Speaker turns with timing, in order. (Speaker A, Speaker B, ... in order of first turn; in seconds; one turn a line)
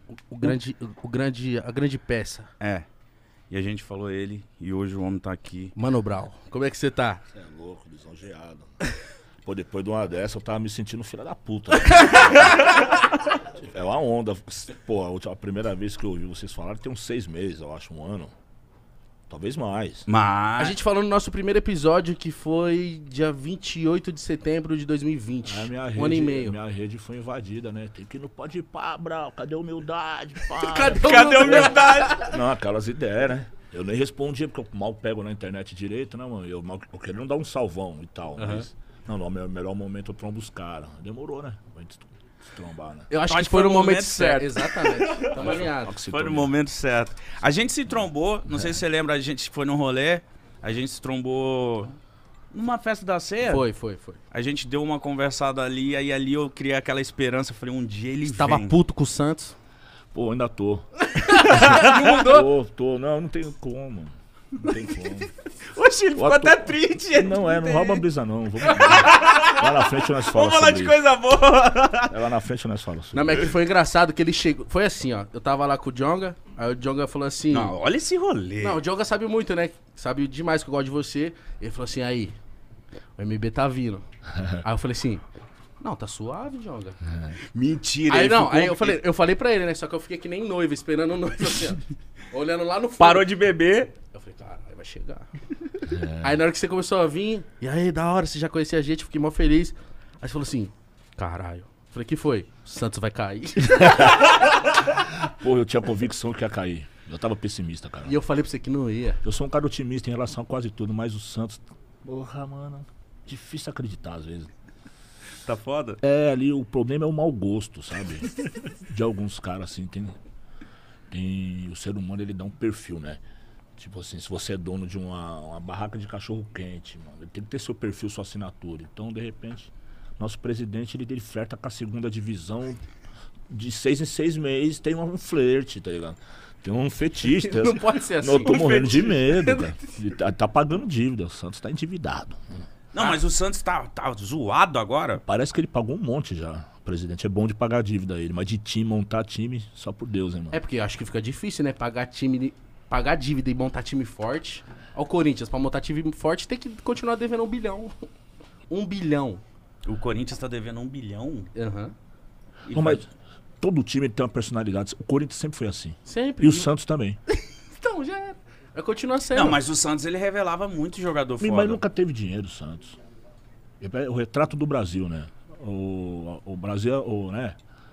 Speaker A: 0.1-2.5
Speaker B: 2.6-2.9
Speaker B: 3.5-5.7
Speaker A: 5.8-7.2
Speaker C: 7.3-8.8
Speaker C: 9.4-12.6
Speaker C: 13.4-18.3
Speaker C: 19.3-20.1
Speaker B: 20.1-20.8
Speaker A: 20.6-26.6
Speaker C: 25.4-43.1
Speaker A: 30.6-32.2
Speaker B: 30.8-32.4
Speaker A: 38.4-38.7
Speaker A: 43.1-46.0
Speaker B: 43.3-52.0
Speaker C: 45.3-46.5
Speaker B: 52.5-53.6
Speaker A: 53.4-54.2
Speaker B: 54.3-58.8
Speaker A: 58.3-59.6
Speaker C: 60.1-65.3
Speaker A: 61.1-62.4
Speaker B: 61.6-62.2
Speaker B: 65.7-68.1
Speaker C: 66.2-71.0
Speaker B: 68.6-72.3
Speaker C: 72.1-73.5
Speaker A: 73.1-77.7
Speaker B: 77.5-78.8
Speaker A: 78.6-82.3
Speaker A: 83.2-85.2
Speaker A: 85.8-87.0
Speaker B: 87.5-89.0
Speaker A: 88.1-93.3
Speaker B: 93.0-93.9
Speaker A: 94.1-95.3
Speaker C: 95.9-96.3
Speaker A: 96.0-104.4
Speaker C: 103.9-108.1
Speaker A: 108.1-109.2
Speaker C: 109.2-114.5
Speaker B: 115.4-116.0
Speaker C: 116.0-120.2
Speaker C: 121.1-123.2
Speaker C: 123.8-132.8
Speaker C: 133.5-142.6
Speaker A: 137.3-139.8
Speaker B: 138.4-138.9
Speaker B: 142.9-145.2
Speaker C: 145.2-150.6
Speaker A: 150.5-157.9
Speaker A: 158.7-159.4
Speaker B: 159.9-161.5
Speaker A: 161.6-161.9
Speaker B: 162.7-163.0
Speaker C: 162.7-163.1
Speaker C: 163.6-167.2
Speaker A: 166.1-166.7
Speaker A: 167.3-169.6
Speaker B: 169.3-171.8
Speaker C: 171.4-173.0
Speaker C: 173.8-177.6